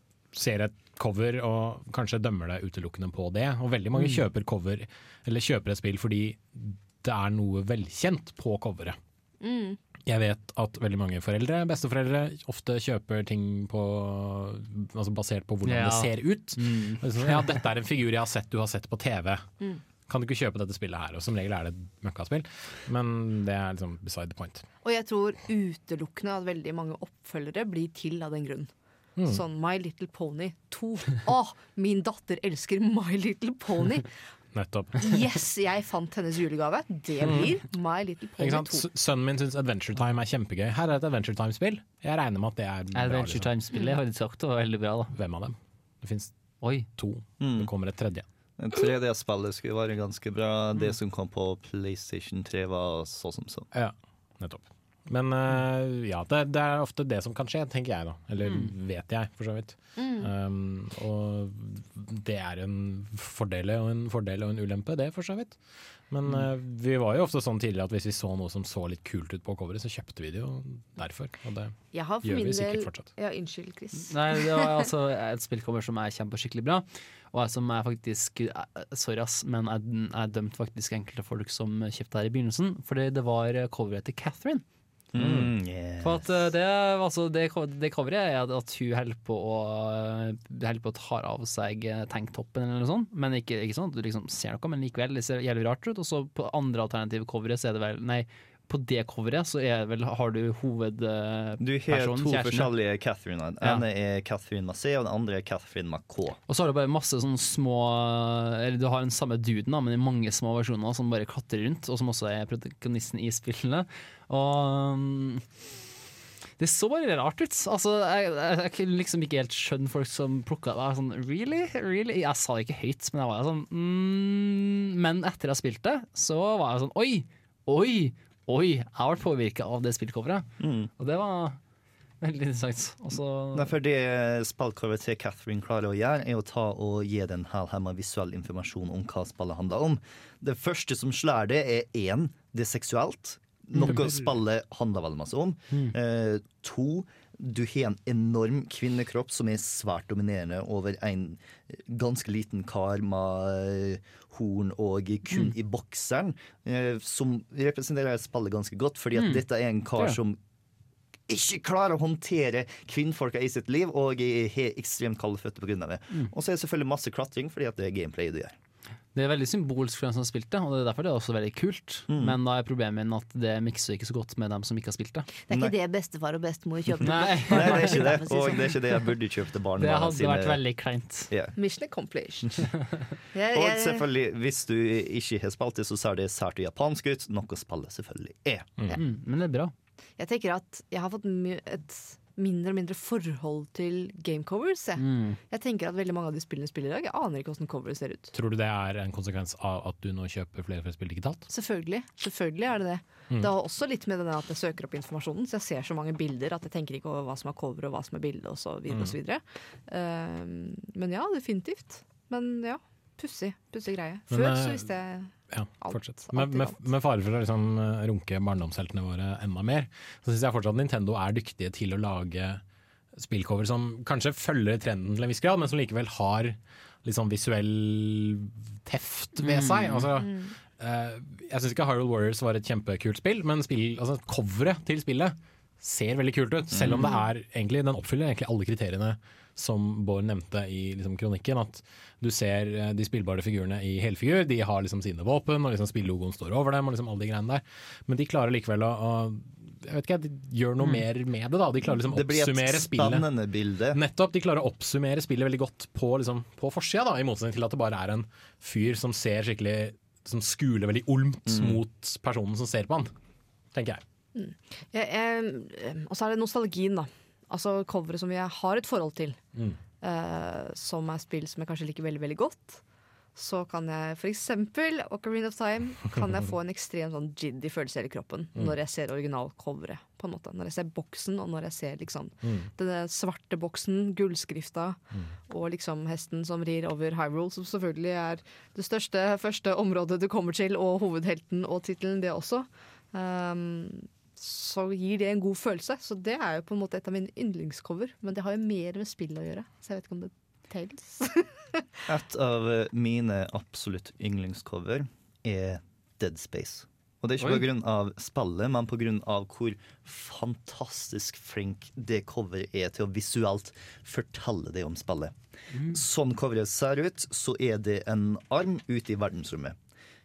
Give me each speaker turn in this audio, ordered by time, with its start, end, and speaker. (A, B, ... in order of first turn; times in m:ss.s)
0:00.3-0:09.0 A
0:04.0-0:04.2 B
0:09.4-0:09.8 C
0:10.1-0:19.4 A
0:15.6-0:17.6 B
0:20.1-0:24.6 A
0:24.8-0:28.7 C
0:29.2-0:34.1 C
0:34.5-0:35.2 A
0:35.0-0:38.9 C
0:38.4-0:43.5 A
0:43.0-0:45.1 B
0:45.2-0:46.3 A
0:46.6-0:46.9 B
0:47.0-0:48.3 A
0:47.4-0:47.7 D
0:48.6-0:53.7 D
0:53.7-1:05.6 A
0:58.4-0:58.7 B
1:00.0-1:00.3 C
1:06.1-1:13.0 A
1:11.9-1:14.8 C
1:14.0-1:24.6 B
1:25.1-1:26.5 D
1:25.2-1:25.5 A
1:26.0-1:42.7 B
1:41.6-1:46.4 D
1:46.5-1:55.4 B
1:56.6-2:10.5 B
2:10.6-2:10.9 D
2:11.0-2:11.6 B
2:12.2-2:13.7 B
2:13.5-2:40.4 D
2:23.8-2:24.3 B
2:39.2-2:39.4 B
2:41.3-2:48.6 D
2:49.2-2:55.3 B
2:52.1-2:52.4 D
2:55.5-2:59.1 C
2:57.0-2:58.2 B
2:57.5-3:00.6 D
2:59.8-3:01.3 B
3:01.6-3:02.7 C
3:03.3-3:04.0 C
3:03.5-3:08.7 D
3:08.9-3:09.7 B
3:10.2-3:18.3 C
3:15.0-3:15.4 B
3:18.3-3:21.4 A
3:21.5-3:36.8 C
3:28.9-3:29.2 A
3:34.3-3:34.9 A
3:35.5-3:42.6 A
3:43.2-4:13.3 A
3:49.4-3:50.1 B
3:50.2-3:50.5 C
3:56.7-3:57.2 D
4:12.1-4:14.0 D
4:13.9-4:23.1 A
4:21.5-4:21.8 D
4:23.7-4:24.0 A
4:24.4-4:29.4 C
4:30.0-4:32.8 C
4:33.4-5:01.9 C
4:42.4-4:42.7 A
5:02.1-5:15.4 D
5:07.4-5:07.7 B
5:15.7-5:16.0 B
5:15.9-5:19.8 D